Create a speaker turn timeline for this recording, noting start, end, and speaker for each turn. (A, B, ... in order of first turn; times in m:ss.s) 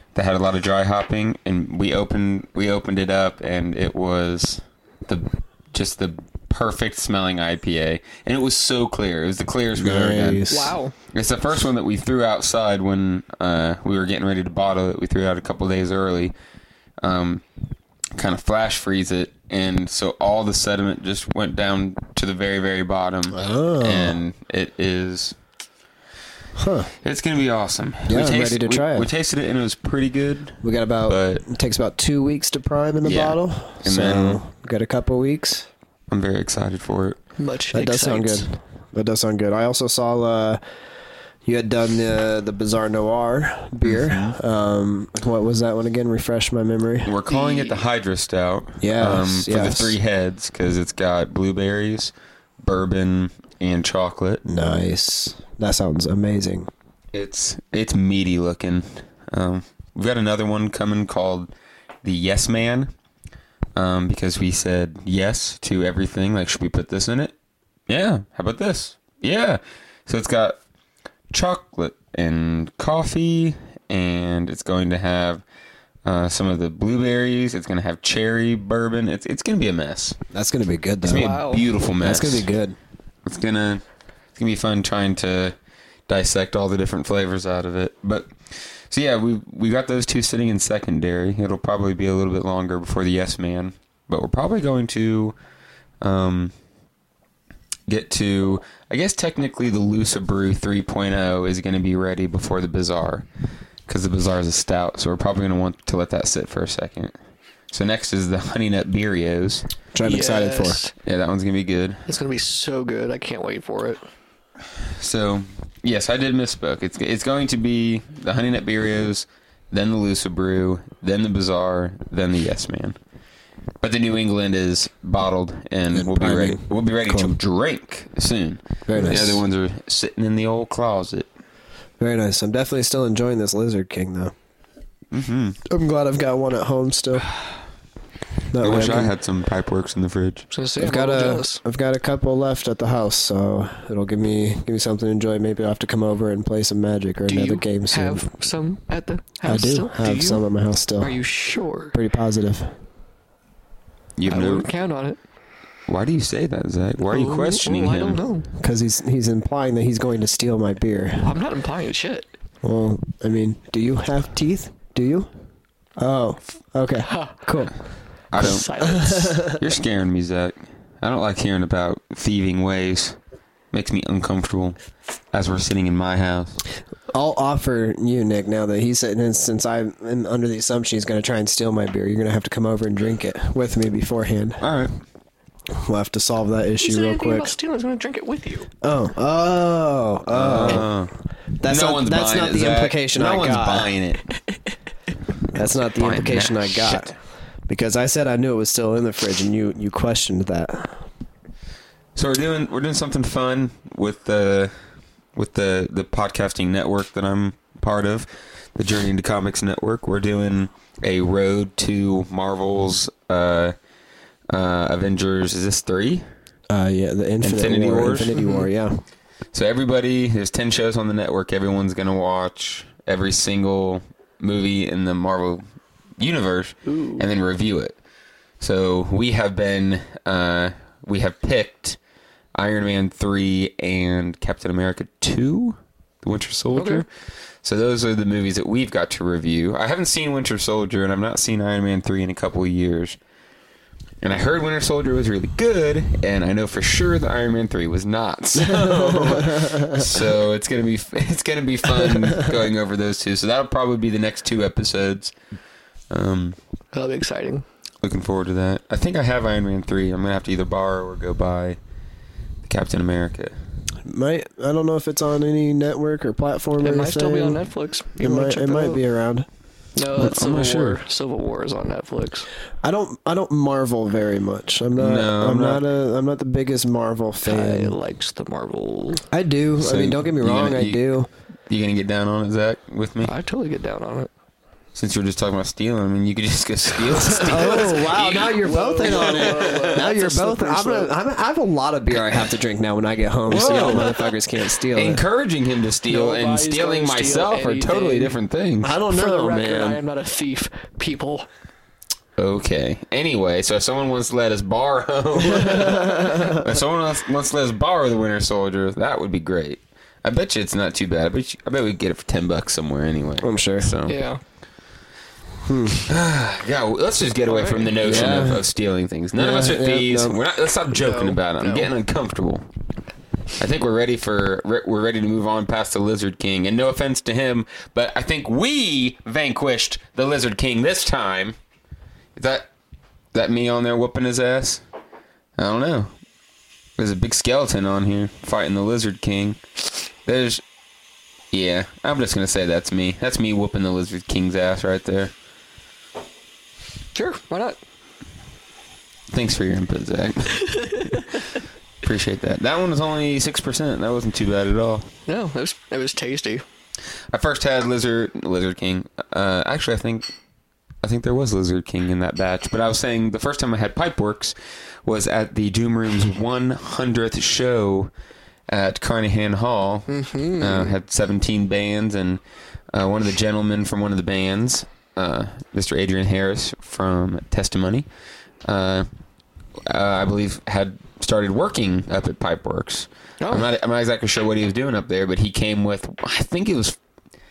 0:00.1-0:10.5 A
0:09.8-0:10.7 B
0:10.5-0:10.9 C
0:11.1-0:16.3 A
0:17.0-0:17.4 A
0:18.2-0:25.3 A
0:23.3-0:24.2 B
0:26.6-0:26.9 B
0:27.0-0:31.4 A
0:28.1-0:29.1 B
0:30.6-0:35.7 B
0:33.0-0:34.4 A
0:36.1-0:37.2 A
0:37.4-0:38.5 C
0:37.7-0:40.6 B
0:41.4-0:47.1 B
0:43.8-0:44.4 A
0:47.0-0:54.4 A
0:47.3-0:47.8 C
0:48.8-0:50.0 B
0:54.4-0:56.7 B
0:57.1-1:01.5 A
1:02.0-1:02.9 A
1:03.8-1:07.3 A
1:07.9-1:10.6 A
1:11.3-1:15.4 A
1:16.0-1:20.2 A
1:20.3-1:21.3 B
1:21.0-1:22.4 A
1:21.1-1:21.6 C
1:22.0-1:22.8 B
1:23.2-1:23.8 A
1:24.4-1:25.5 A
1:26.1-1:35.4 A
1:36.0-1:36.5 A
1:37.9-1:43.2 A
1:43.9-1:47.1 A
1:47.7-1:49.7 A
1:49.9-1:50.8 B
1:50.0-1:50.9 C
1:51.0-1:52.0 A
1:52.1-1:54.0 C
1:55.0-2:03.0 A
2:03.8-2:11.3 A
2:05.9-2:07.4 B
2:08.9-2:09.4 B
2:12.0-2:14.3 B
2:15.1-2:15.6 A
2:15.7-2:17.3 B
2:18.5-2:19.1 B
2:18.6-2:20.5 A
2:20.5-2:21.6 C
2:20.8-2:28.3 B
2:27.3-2:30.4 C
2:29.4-2:31.2 B
2:31.0-2:32.0 C
2:31.9-2:32.7 B
2:34.2-2:34.7 A
2:34.3-2:35.2 C
2:35.9-2:38.2 A
2:37.0-2:38.5 C
2:38.6-2:41.3 B
2:41.2-2:42.3 C
2:42.6-2:45.3 B
2:46.0-2:47.7 B
2:47.0-2:47.4 C
2:48.3-2:48.6 A
2:48.3-2:49.6 C
2:48.4-2:49.6 B
2:49.5-2:53.2 A
2:53.7-2:54.8 A
2:55.3-2:56.6 A
2:57.1-3:04.6 B
3:04.6-3:05.0 A
3:05.7-3:07.5 B
3:06.8-3:08.7 C
3:08.8-3:10.9 B
3:10.3-3:11.1 A
3:11.6-3:13.9 B
3:11.6-3:14.2 A
3:15.5-3:17.1 B
3:16.0-3:17.0 A
3:17.7-3:21.0 B
3:22.2-3:24.7 A
3:25.3-3:33.7 A
3:34.5-3:36.2 A
3:36.7-3:39.0 B
3:37.4-3:38.4 A
3:38.3-3:38.7 C
3:39.5-3:45.6 A
3:46.2-3:48.0 A
3:46.8-3:47.2 C
3:48.6-3:52.0 A
3:52.5-3:57.1 A
3:56.7-3:57.0 C
3:57.6-4:03.2 A
4:04.2-4:15.3 A
4:08.8-4:10.0 B
4:16.1-4:16.6 A
4:16.9-4:17.6 C
4:18.0-4:21.8 A
4:22.6-4:23.5 A
4:24.0-4:27.6 B
4:26.8-4:29.0 C
4:28.2-4:29.5 B
4:30.0-4:32.5 C
4:30.2-4:31.0 A
4:32.8-4:37.9 B
4:35.0-4:35.8 A
4:37.4-4:39.2 C
4:39.3-4:41.3 B
4:39.8-4:41.1 A
4:41.7-4:43.3 A
4:43.2-4:44.3 C
4:44.9-4:49.9 A
4:47.2-4:55.2 B
4:47.4-4:51.1 C
4:53.5-4:54.1 A
4:53.5-4:54.2 C
4:54.9-4:59.0 A
4:56.1-4:58.3 C
4:58.8-5:00.0 B
4:59.1-5:01.5 C
5:02.4-5:14.2 A
5:05.7-5:06.5 C
5:05.7-5:06.4 B
5:13.4-5:14.0 B
5:14.0-5:14.4 C
5:15.6-5:16.1 B
5:16.0-5:22.6 A
5:17.5-5:18.0 C
5:18.0-5:18.6 B
5:19.4-5:20.4 B
5:20.9-5:21.9 C
5:23.6-5:31.6 A
5:32.4-5:32.7 A
5:33.3-5:34.8 A
5:35.6-5:36.1 A
5:37.0-5:39.6 A
5:40.2-5:40.6 A
5:41.5-5:45.3 A
5:47.1-5:47.8 C
5:49.3-5:51.2 A
5:50.6-5:51.4 C
5:52.0-5:55.1 A
5:55.2-5:56.6 C
5:57.3-6:00.3 A
6:01.0-6:08.1 A
6:08.7-6:10.1 A
6:10.1-6:10.9 C
6:10.6-6:12.4 A
6:12.9-6:18.0 A
6:18.6-6:19.1 A
6:19.9-6:27.0 A
6:23.4-6:23.7 C